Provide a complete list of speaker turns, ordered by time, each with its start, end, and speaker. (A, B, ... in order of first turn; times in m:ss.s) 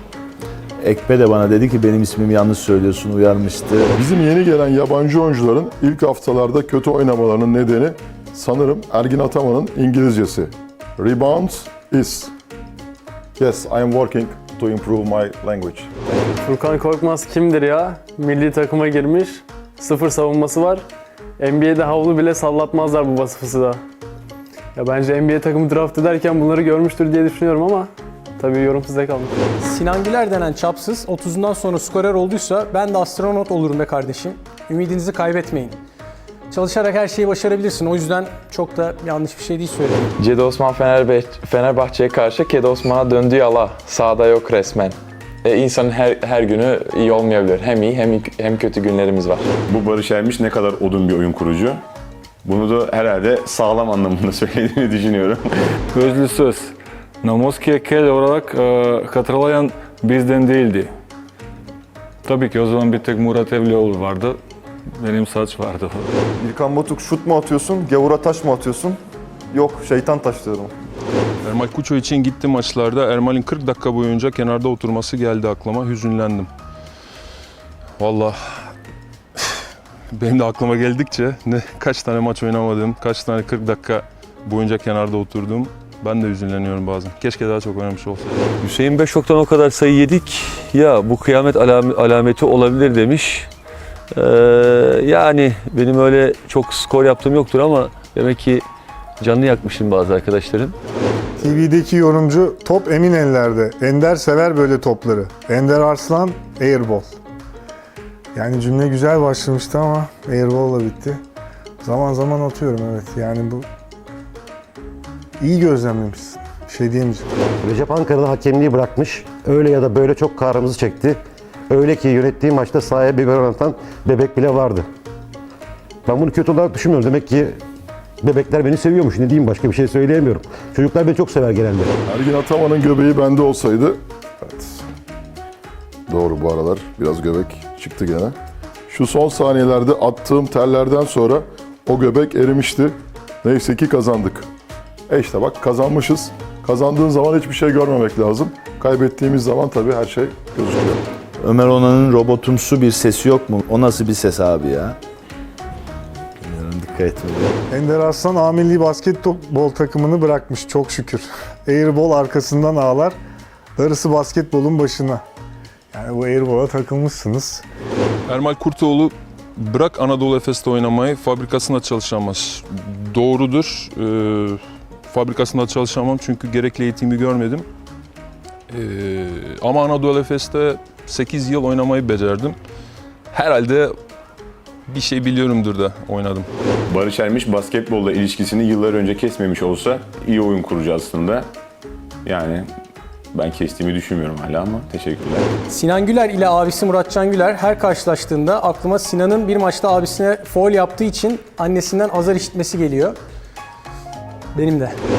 0:00.8-0:03.9 A
0:03.9-0:12.3 B
0:13.4-0:15.9 B
0:16.4-0:20.8 C
0:21.4-0:23.8 C
0:24.7-0:29.3 C
0:29.6-0:35.8 D
0:36.5-0:40.1 D
0:40.2-0:49.5 E
0:49.7-0:51.8 F
0:52.4-0:55.4 F
0:55.9-1:00.9 G
1:02.2-1:04.4 G
1:05.0-1:06.1 G
1:06.4-1:09.0 H
1:09.5-1:10.7 H
1:11.4-1:16.5 I
1:18.0-1:18.7 I
1:20.1-1:28.4 I
1:28.6-1:33.5 J
1:34.2-1:38.6 J
1:39.2-1:40.7 J
1:41.4-1:47.1 K
1:48.3-1:51.2 K
1:51.8-1:53.6 K
1:55.4-1:57.2 K
1:57.6-2:04.9 L
2:06.0-2:07.6 L
2:08.2-2:11.9 L
2:12.1-2:14.8 B
2:16.1-2:18.3 B
2:18.9-2:24.5 B
2:25.1-2:31.0 B
2:31.4-2:35.0 A
2:36.4-2:37.6 A
2:37.7-2:43.2 K
2:43.8-2:45.2 K
2:45.9-2:47.6 K
2:48.3-2:57.6 I
2:58.7-3:02.6 I
3:03.3-3:03.9 I
3:04.9-3:06.5 I
3:06.9-3:11.5 F
3:12.2-3:12.7 F
3:13.3-3:15.5 F
3:15.7-3:23.2 D
3:24.5-3:25.0 D